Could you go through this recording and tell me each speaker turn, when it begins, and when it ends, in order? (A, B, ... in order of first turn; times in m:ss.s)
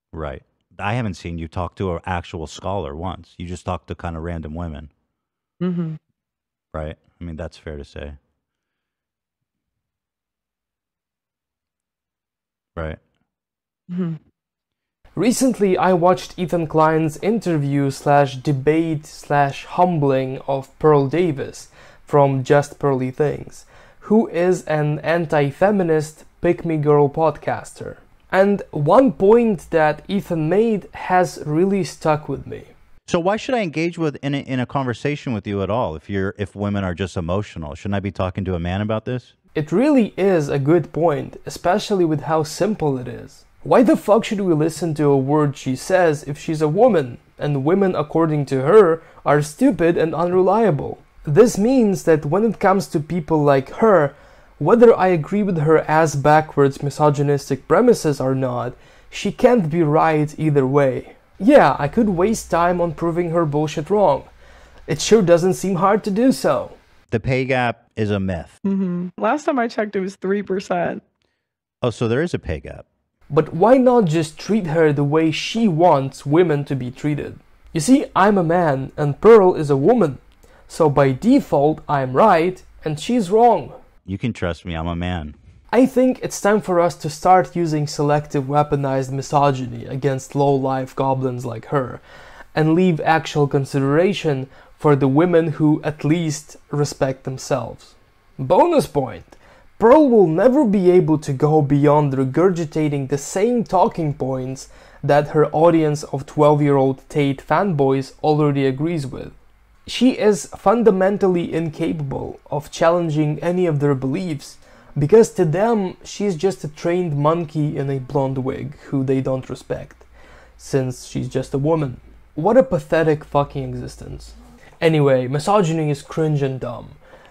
0:00.1-0:04.9 A
0:05.6-0:06.0 B
0:06.7-0:08.2 A
0:13.9-0:14.2 B
0:15.2-0:32.7 C
0:33.1-0:39.3 A
0:39.6-1:04.3 C
1:04.9-1:06.8 C
1:07.1-1:08.5 A
1:08.6-1:11.0 B
1:11.8-1:12.8 A
1:13.3-1:23.8 C
1:24.1-1:25.4 A
1:25.7-1:32.0 C
1:32.6-1:49.4 C
1:49.9-2:00.1 C
2:00.6-2:07.0 C